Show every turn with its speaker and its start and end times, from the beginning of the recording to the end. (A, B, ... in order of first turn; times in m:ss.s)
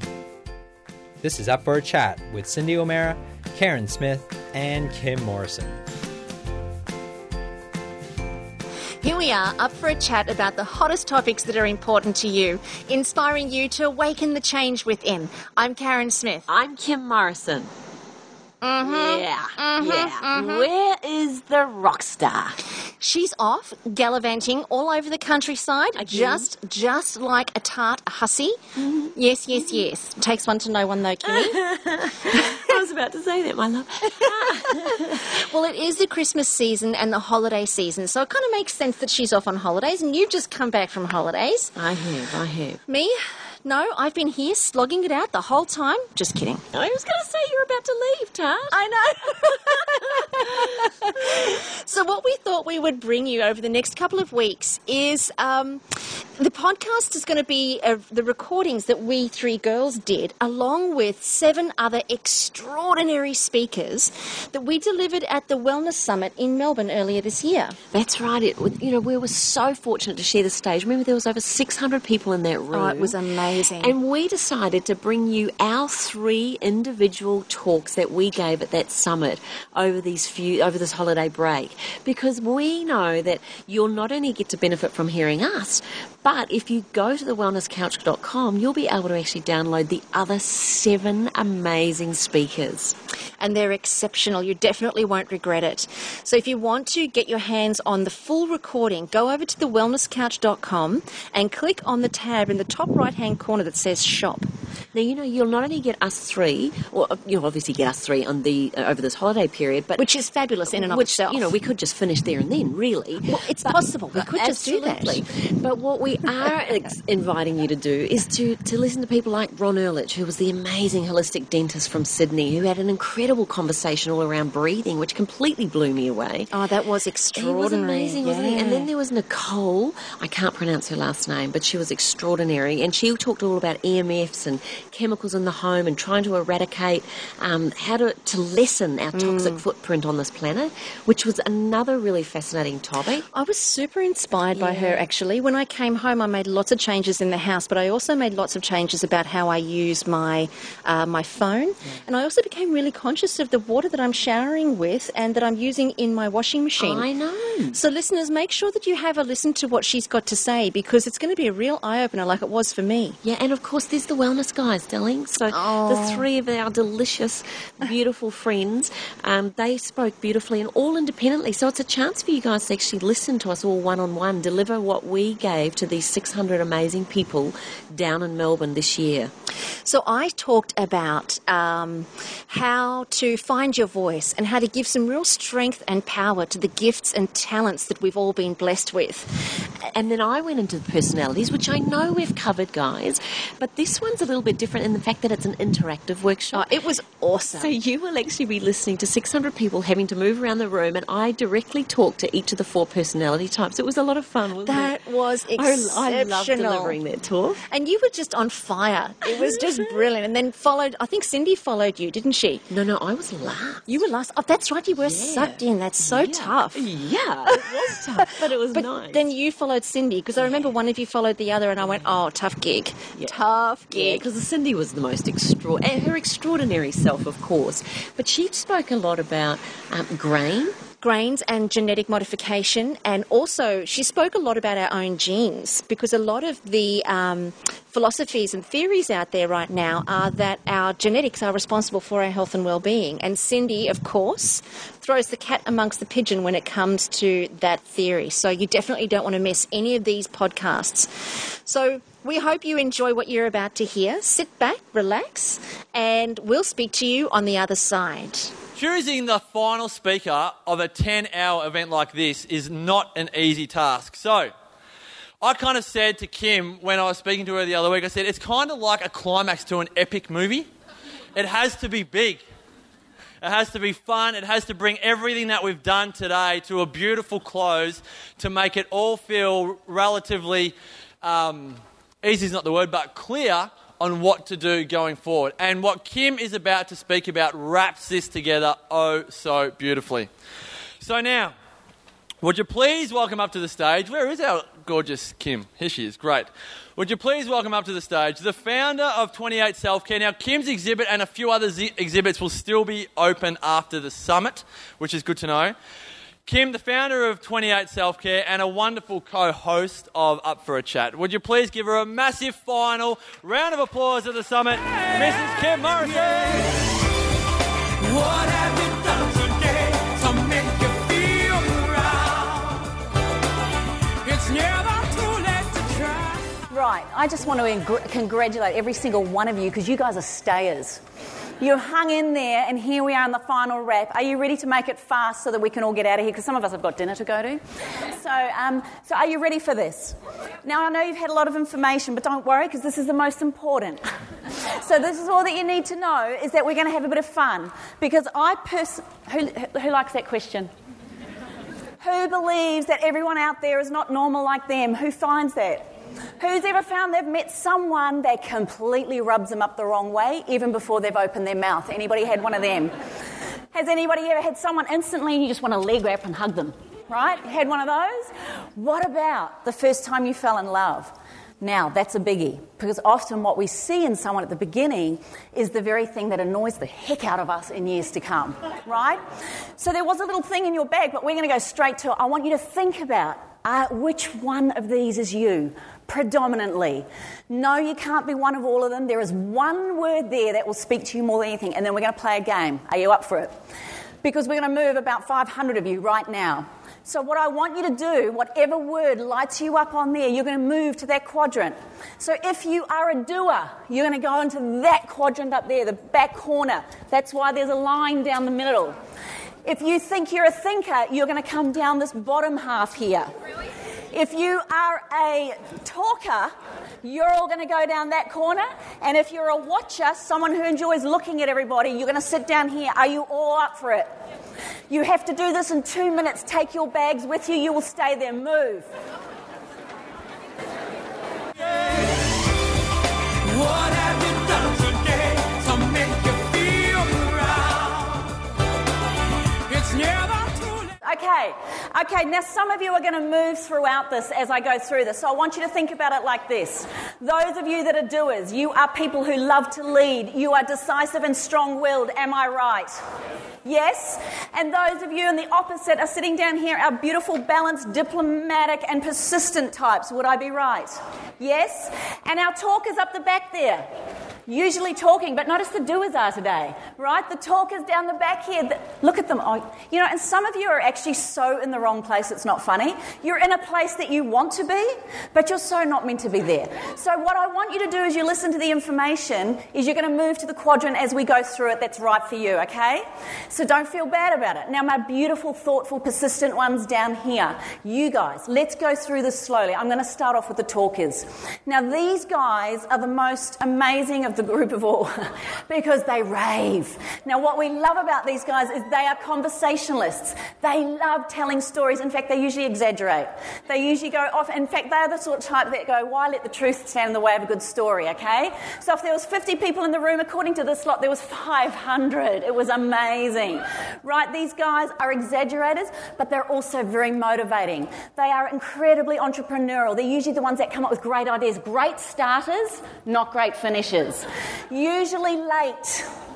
0:01.2-0:05.8 A
0:09.0-0:16.5 B
0:16.5-0:17.7 C
0:18.6-0:20.7 B
0:18.8-0:22.6 C
0:23.0-0:31.6 B
0:26.0-0:26.5 C
0:28.8-0:29.8 C
0:31.3-0:35.2 C
0:34.6-0:41.7 B
0:41.8-0:42.8 C
0:42.9-0:46.6 B
0:46.7-0:50.7 C
0:48.7-0:55.8 B
0:56.4-1:07.8 B
1:07.9-1:13.2 C
1:12.7-1:13.9 B
1:13.8-1:33.0 C
1:33.4-1:44.5 B
1:44.9-1:50.2 C
1:50.0-1:51.5 B
1:50.7-2:06.5 C
1:53.3-1:55.2 B
2:06.5-2:08.9 B
2:07.4-2:23.3 C
2:19.1-2:19.6 B
2:23.3-2:37.1 B
2:24.5-2:25.0 C
2:36.8-2:37.8 C
2:37.7-2:43.2 B
2:43.2-2:59.3 C
2:45.5-2:46.3 B
2:59.8-3:09.4 B
3:09.8-3:16.7 C
3:16.5-3:17.7 B
3:17.5-3:25.0 C
3:24.7-3:27.0 B
3:25.5-3:27.6 C
3:27.7-3:32.6 B
3:32.7-3:34.0 C
3:33.9-3:36.8 B
3:35.0-3:39.3 C
3:38.4-3:44.2 B
3:40.4-3:40.7 C
3:43.2-3:50.8 C
3:51.0-4:11.1 B
4:11.7-4:18.5 B
4:18.8-4:24.5 D
4:25.4-4:30.7 D
4:31.4-4:32.4 D
4:33.4-4:50.3 D
4:51.0-4:51.6 D
4:52.4-5:05.8 D
5:06.5-5:16.5 D
5:15.1-5:16.7 E
5:18.0-5:22.9 E
5:24.2-5:26.6 E
5:26.7-5:31.0 F
5:31.6-5:44.0 F
5:44.7-5:50.7 F
5:52.0-5:55.9 F
5:56.4-6:03.0 F
6:03.7-6:19.2 F
6:19.8-6:33.5 F
6:34.2-6:49.0 F
6:49.6-6:53.3 F
6:54.1-6:56.5 F
6:57.0-7:04.1 F
7:04.9-7:08.9 F
7:11.7-7:12.2 E
7:13.4-7:18.4 E
7:19.7-7:21.0 E
7:21.0-7:33.0 F
7:33.6-7:43.9 F
7:44.5-8:46.1 F